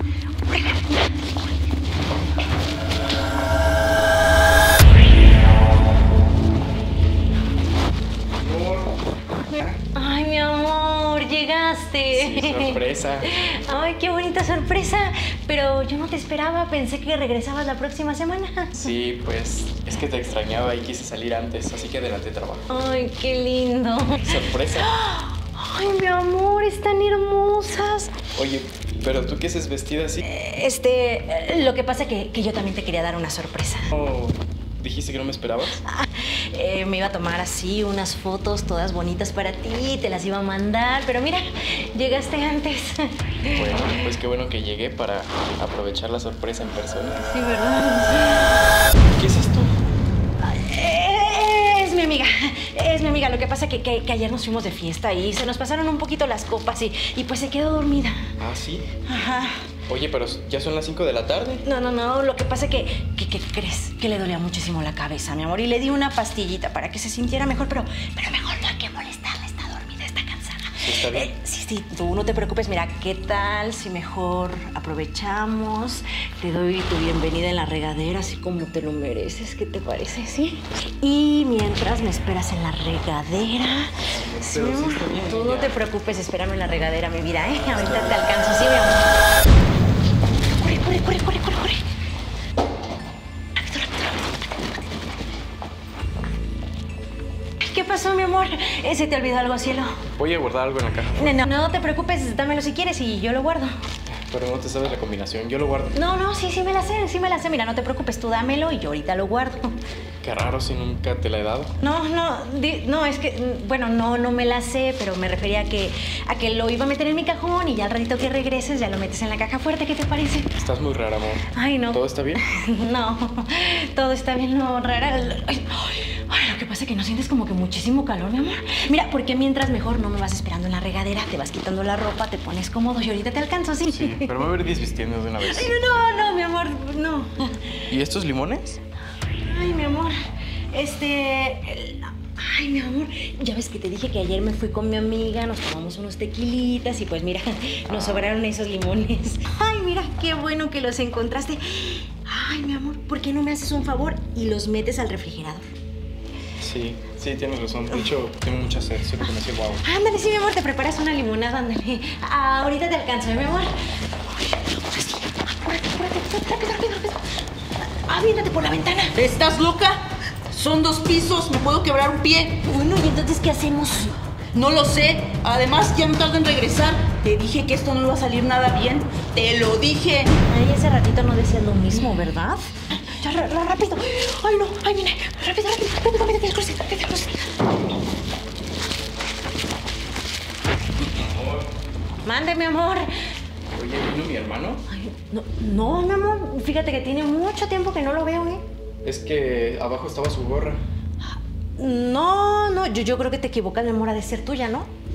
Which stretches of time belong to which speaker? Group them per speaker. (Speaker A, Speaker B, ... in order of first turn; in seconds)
Speaker A: 0.5-1.1, 9.5-18.9, 22.7-28.1, 30.2-33.9, 35.8-43.9, 47.1-48.6, 50.4-58.3, 59.0-59.7, 61.6-89.1, 90.6-91.8, 93.6-94.5, 97.6-100.0, 101.2-103.7, 105.9-109.7, 111.8-120.5, 121.5-134.5, 135.4-137.8, 139.3-140.1, 140.7-155.6, 159.8-167.2, 167.8-169.2, 172.6-174.2, 180.3-187.5, 192.2-193.1, 194.9-198.6, 201.8-204.9
Speaker B: 8.4-8.9, 12.1-13.3, 18.7-22.7, 24.2-24.9, 28.3-30.2, 33.9-35.8, 43.5-47.2, 49.1-49.8, 58.4-58.9, 59.9-61.6, 70.8-71.3, 84.2-85.8, 87.7-88.3, 100.1-101.4, 104.1-106.0, 110.2-111.8, 120.5-122.4, 133.9-135.7, 137.9-138.8, 156.6-159.8, 191.2-191.6, 193.7-194.8, 199.0-200.8
Speaker C: 169.1-172.6, 174.5-180.3